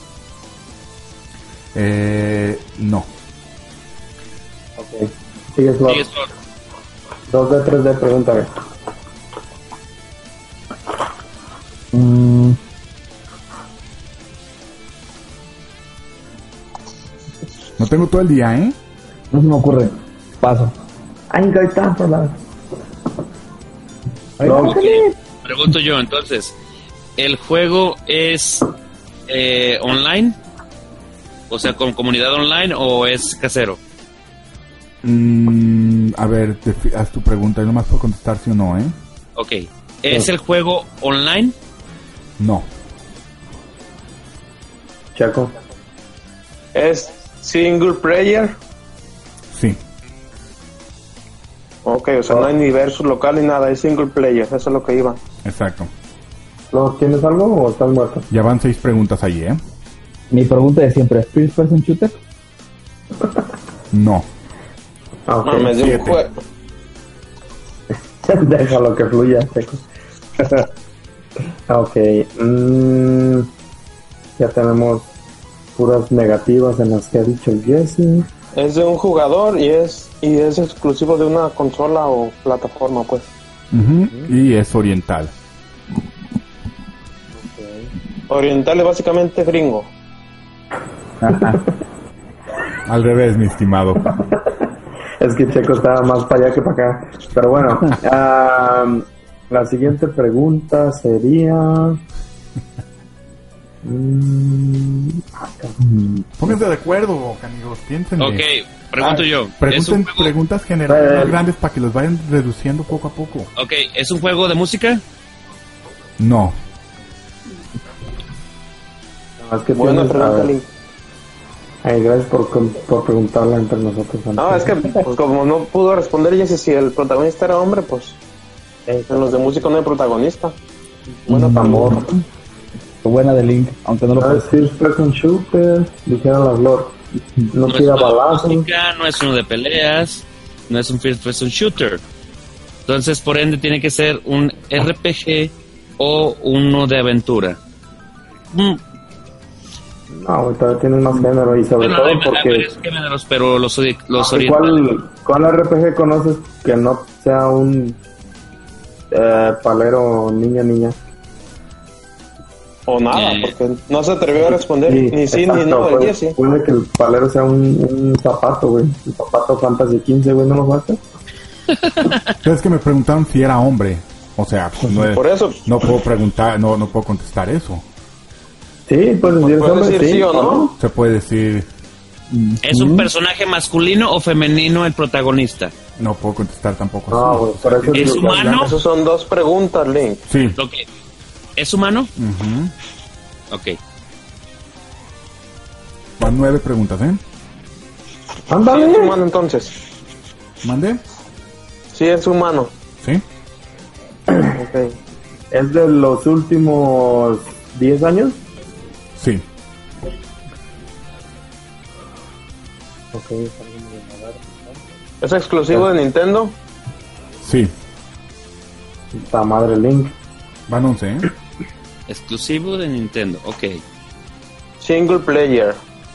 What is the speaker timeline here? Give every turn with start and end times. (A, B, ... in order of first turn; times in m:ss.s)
0:01.7-0:03.1 A
0:04.8-0:06.1 B
0:05.9-0:06.3 C
0:07.3-0:08.5 B
0:11.9-0:12.6 D
0:17.8-0:18.8 A
0:19.3-0:20.7 D
0:21.3-0:22.4 B
0:24.4-0:25.1 D
0:24.4-0:25.0 B
0:24.6-0:26.6 C
0:27.2-0:28.7 C
0:29.3-0:30.4 C
0:31.5-0:33.8 C
0:35.0-0:39.0 A
0:39.4-0:41.5 C
0:42.4-0:42.7 A
0:45.2-0:45.5 B
0:46.7-0:48.6 E
0:49.5-0:49.8 A
0:51.8-0:55.2 E
0:55.4-0:55.9 A
0:56.7-0:58.3 B
0:58.3-0:59.6 A
1:00.3-1:02.1 D
1:03.9-1:04.3 A
1:05.3-1:05.7 B
1:05.4-1:06.4 E
1:05.7-1:06.2 A
1:08.2-1:09.8 B
1:10.4-1:10.7 B
1:11.7-1:13.5 B
1:14.4-1:15.0 B
1:15.8-1:18.3 B
1:18.6-1:23.3 E
1:23.7-1:25.3 A
1:27.4-1:27.9 B
1:28.3-1:29.9 E
1:31.2-1:31.6 D
1:32.8-1:34.2 A
1:34.2-1:34.6 B
1:35.2-1:42.0 B
1:43.8-1:45.8 B
1:45.8-1:46.3 D
1:46.4-1:48.5 A
1:48.2-1:50.3 C
1:49.0-1:53.5 A
1:50.9-1:51.4 B
1:53.6-1:55.0 C
1:56.2-1:56.6 A
1:59.4-2:00.5 B
1:59.8-2:00.7 E
2:01.8-2:04.8 B
2:04.4-2:08.2 E
2:08.9-2:09.7 B
2:09.1-2:10.6 E
2:11.2-2:12.0 B
2:11.3-2:12.1 E
2:11.4-2:12.2 D
2:13.0-2:14.6 D
2:14.2-2:16.9 B
2:17.5-2:18.7 B
2:17.7-2:22.0 C
2:22.9-2:27.6 C
2:28.5-2:28.8 C
2:30.1-2:32.7 B
2:31.8-2:34.8 C
2:34.2-2:38.0 B
2:39.1-2:41.0 B
2:42.9-2:46.4 E
2:43.1-2:43.5 C
2:44.8-2:51.0 B
2:51.8-2:52.2 C
2:52.4-2:57.8 A
2:55.1-2:55.6 E
2:58.9-3:00.7 B
2:59.3-3:00.7 E
3:00.8-3:01.7 A
3:02.3-3:03.1 D
3:02.6-3:05.7 C
3:06.0-3:08.8 A
3:07.1-3:08.4 B
3:07.9-3:08.7 C
3:08.6-3:10.2 E
3:10.3-3:10.6 A
3:10.6-3:10.8 C
3:11.6-3:12.1 C
3:12.2-3:12.7 A
3:13.5-3:13.8 C
3:16.2-3:17.2 A
3:18.5-3:19.2 B
3:18.6-3:19.8 E
3:20.6-3:21.0 A
3:21.9-3:22.7 E
3:24.5-3:25.0 E
3:25.5-3:28.4 B
3:29.2-3:29.4 A
3:33.1-3:34.8 B
3:35.2-3:36.6 E
3:37.4-3:37.7 A
3:39.1-3:40.1 B
3:40.7-3:41.3 A
3:42.1-3:43.8 C
3:44.8-3:45.8 E